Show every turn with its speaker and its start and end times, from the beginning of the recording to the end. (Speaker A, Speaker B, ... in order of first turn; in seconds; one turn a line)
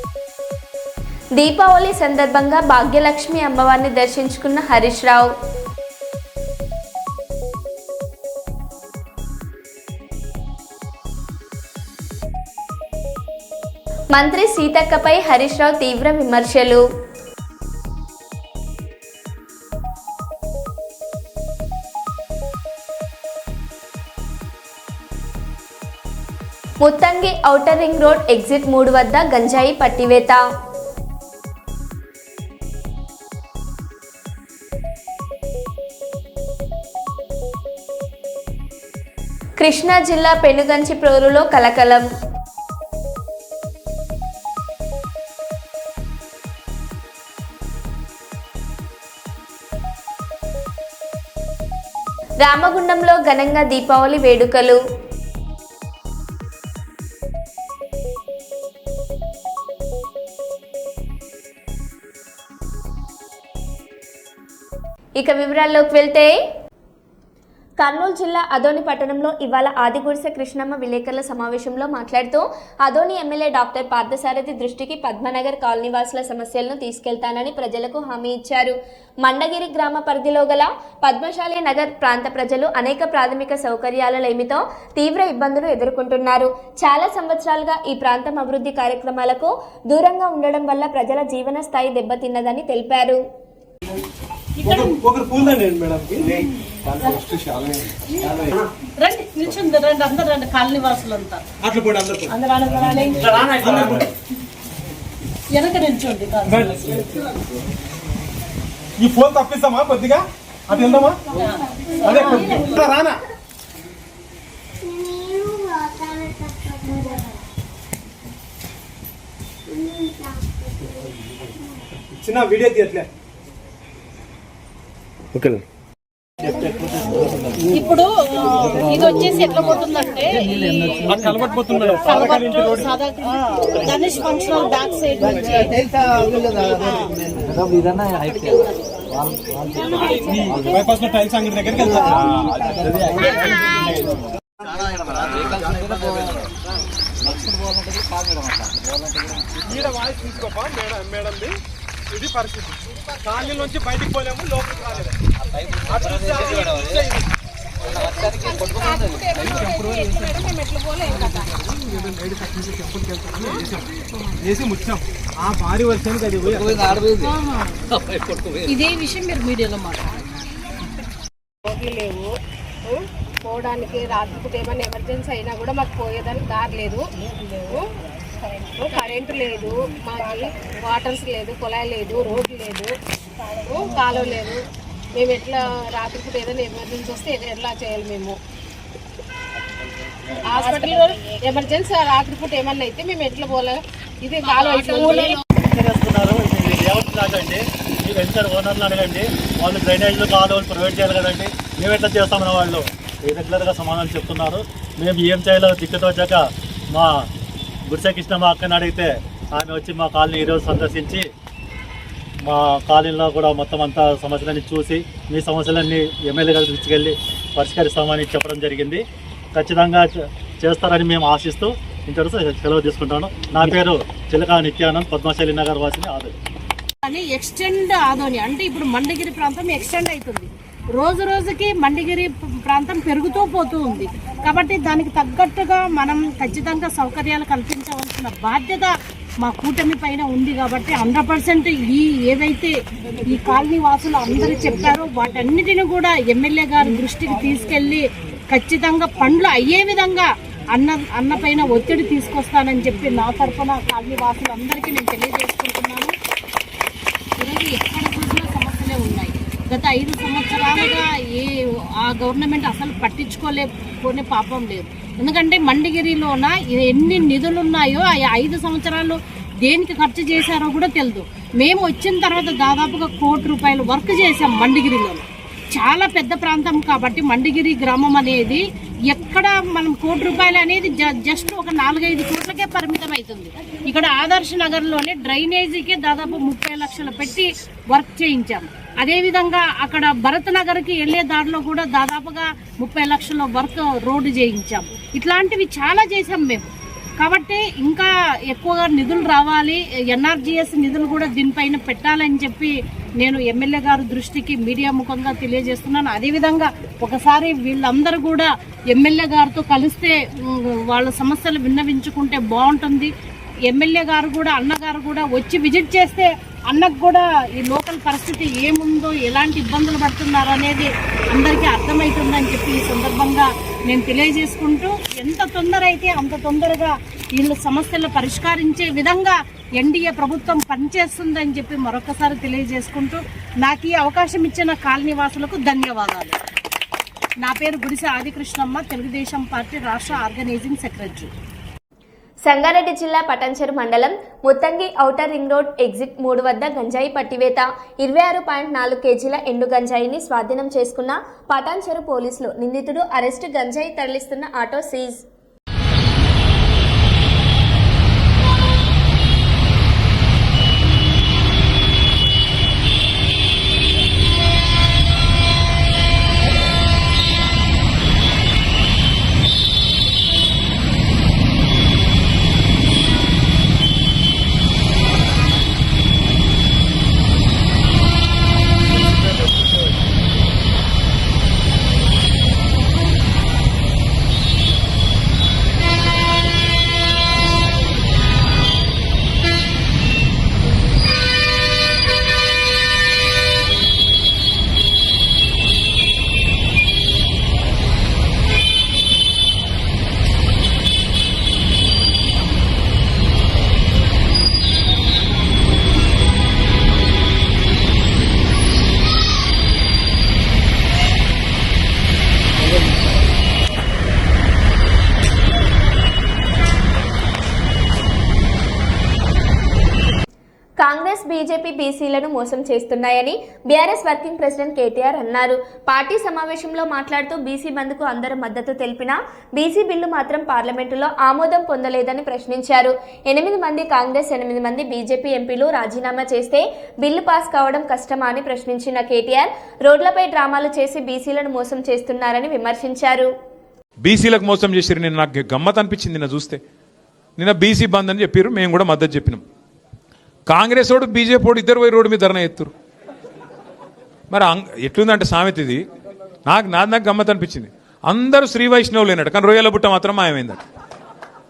Speaker A: 1.4-5.3
Speaker A: 14.1-16.8
Speaker A: 26.8-30.4
Speaker A: 39.6-42.0
Speaker A: 52.4-54.8
Speaker A: 65.2-66.4
Speaker A: 67.8-93.2
Speaker B: 94.6-95.0
Speaker C: 94.6-97.9
Speaker B: 99.0-101.4
Speaker C: 101.6-102.3
Speaker B: 102.3-104.0
Speaker C: 103.4-104.1
Speaker B: 105.5-107.0
Speaker C: 106.5-107.0
Speaker C: 109.0-111.2
Speaker B: 112.0-112.8
Speaker C: 112.0-113.2
Speaker C: 122.1-123.1
Speaker B: 127.7-130.8
Speaker C: 130.9-132.9
Speaker B: 132.0-135.9
Speaker B: 139.8-140.8
Speaker C: 139.9-144.0
Speaker C: 149.7-151.6
Speaker C: 152.1-155.2
Speaker C: 155.8-157.2
Speaker D: 156.4-156.8
Speaker D: 157.8-161.5
Speaker C: 159.4-160.4
Speaker C: 161.1-167.0
Speaker B: 167.2-167.8
Speaker B: 168.6-170.1
Speaker D: 171.7-172.3
Speaker D: 172.8-177.0
Speaker D: 178.8-182.9
Speaker D: 183.6-184.6
Speaker D: 185.1-188.4
Speaker D: 190.5-195.4
Speaker B: 190.6-191.1
Speaker B: 194.5-195.4
Speaker E: 195.6-207.3
Speaker E: 207.8-211.3
Speaker E: 212.4-226.3
Speaker B: 227.0-242.7
Speaker B: 243.2-256.1
Speaker B: 257.4-296.6
Speaker B: 297.2-313.1
Speaker B: 313.7-336.4
Speaker B: 337.4-341.3
Speaker A: 342.4-355.2
Speaker A: 420.8-443.3
Speaker F: 444.0-446.6
Speaker F: 447.4-449.4
Speaker F: 450.5-452.7
Speaker F: 454.3-455.8
Speaker F: 456.4-460.6